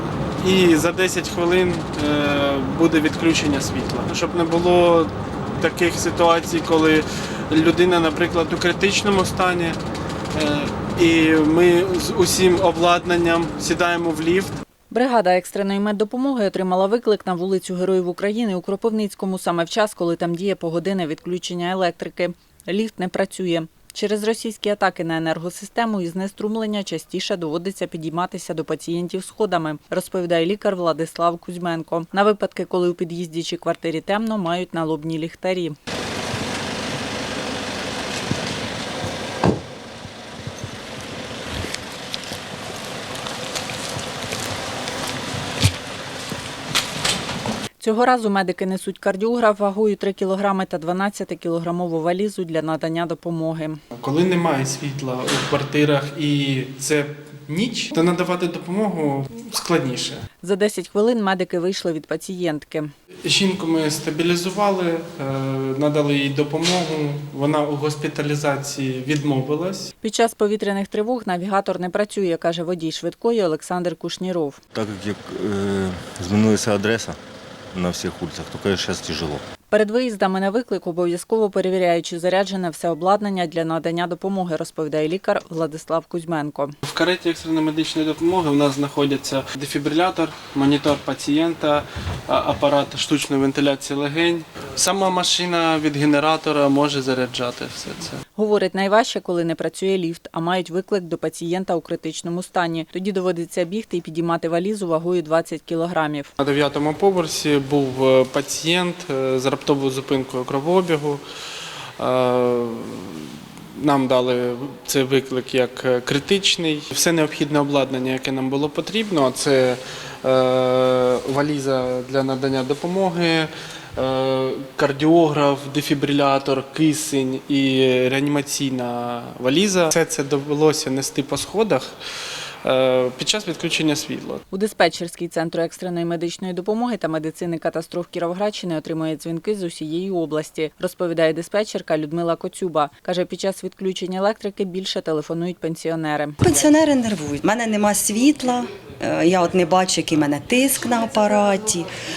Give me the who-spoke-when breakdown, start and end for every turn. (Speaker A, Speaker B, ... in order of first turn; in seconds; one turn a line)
Speaker A: 0.4-9.8
Speaker A: 10.3-14.6
Speaker B: 14.9-35.7
Speaker B: 47.8-53.8
Speaker A: 53.9-60.2
Speaker B: 60.4-62.9
Speaker A: 63.2-69.9
Speaker B: 70.0-74.6
Speaker C: 74.7-77.2
Speaker C: 77.7-79.4
Speaker B: 79.7-86.8
Speaker A: 86.8-98.2
Speaker B: 98.3-106.3
Speaker A: 106.4-111.2
Speaker A: 112.0-131.9
Speaker A: 132.6-134.4
Speaker B: 134.5-146.4
Speaker D: 146.4-151.9